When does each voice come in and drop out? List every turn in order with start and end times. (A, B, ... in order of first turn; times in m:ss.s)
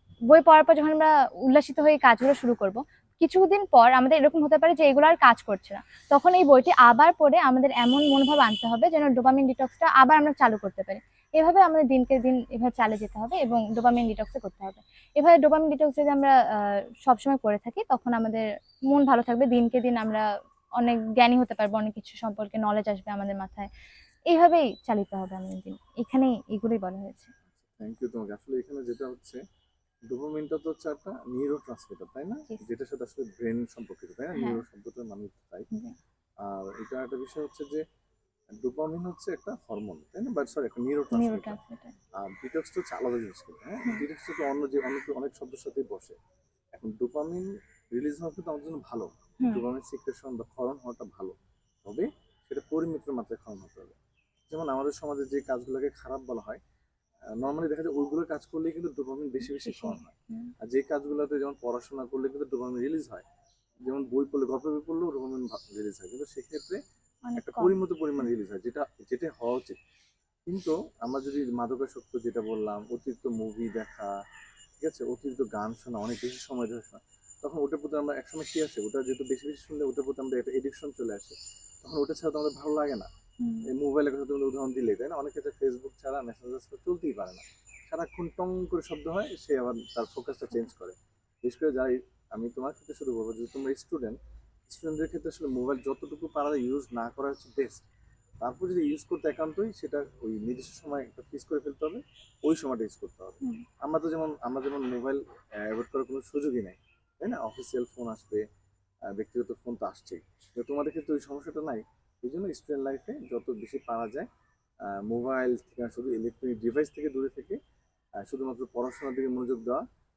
0:00.3-0:20.2 A
0:20.8-0:23.7 A
0:24.3-0:27.3 A
0:27.7-0:29.4 B
0:30.1-0:35.7 B
0:34.3-0:34.6 A
0:36.4-0:37.8 B
0:38.6-0:41.6 B
0:41.1-0:41.9 A
0:42.1-0:46.2 B
0:46.7-0:54.0 B
0:54.5-0:56.6 B
0:57.4-1:03.2 B
0:59.5-1:00.5 A
1:03.8-1:06.8 B
1:07.2-1:07.8 A
1:07.4-1:09.8 B
1:10.5-1:14.1 B
1:14.8-1:23.1 B
1:23.4-1:23.7 A
1:23.6-1:37.8 B
1:38.4-1:48.4 B
1:49.1-1:54.3 B
1:54.8-1:57.6 B
1:58.2-1:59.8 B